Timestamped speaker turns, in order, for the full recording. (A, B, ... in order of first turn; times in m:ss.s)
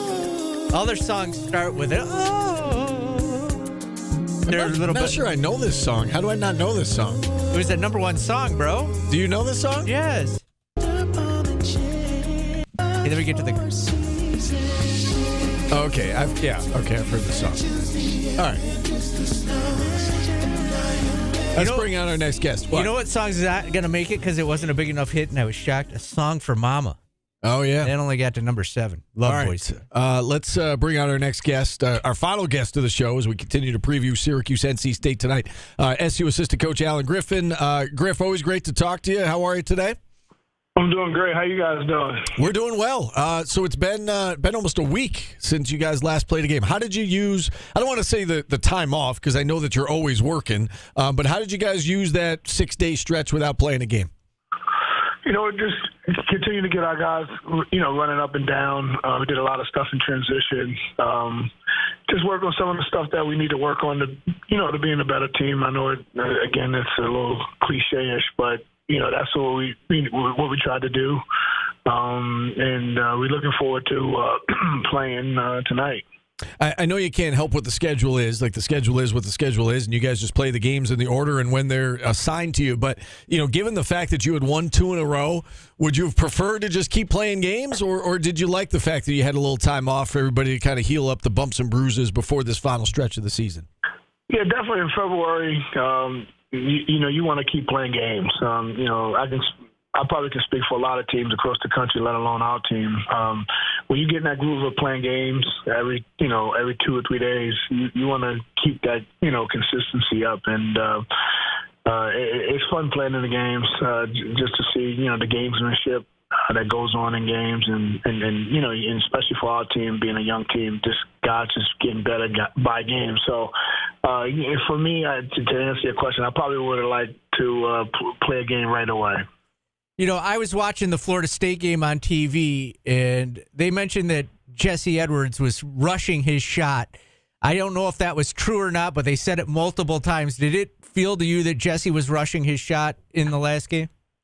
0:00.7-0:03.7 A
0:04.5-0:05.2 A
0:04.5-0:07.3 B
0:07.5-0:09.0 A
0:09.1-0:09.9 B
0:09.8-0:10.4 A
0:13.0-0:13.8 A
0:15.7-0:17.6 B
0:18.4-0:18.6 B
0:21.6-0:22.9 B
0:21.6-0:21.9 A
0:22.7-0:27.0 A
0:27.4-0:27.9 B
0:27.8-0:29.7 A
0:29.2-0:40.0 B
0:40.8-0:42.3 C
0:42.4-0:54.1 B
0:55.2-1:01.5 C
1:02.1-1:11.2 C
1:11.9-1:16.0 C
1:16.6-1:33.7 B
1:34.3-1:51.0 C
1:51.8-2:03.5 C
2:04.0-2:09.2 C
2:10.0-2:23.9 A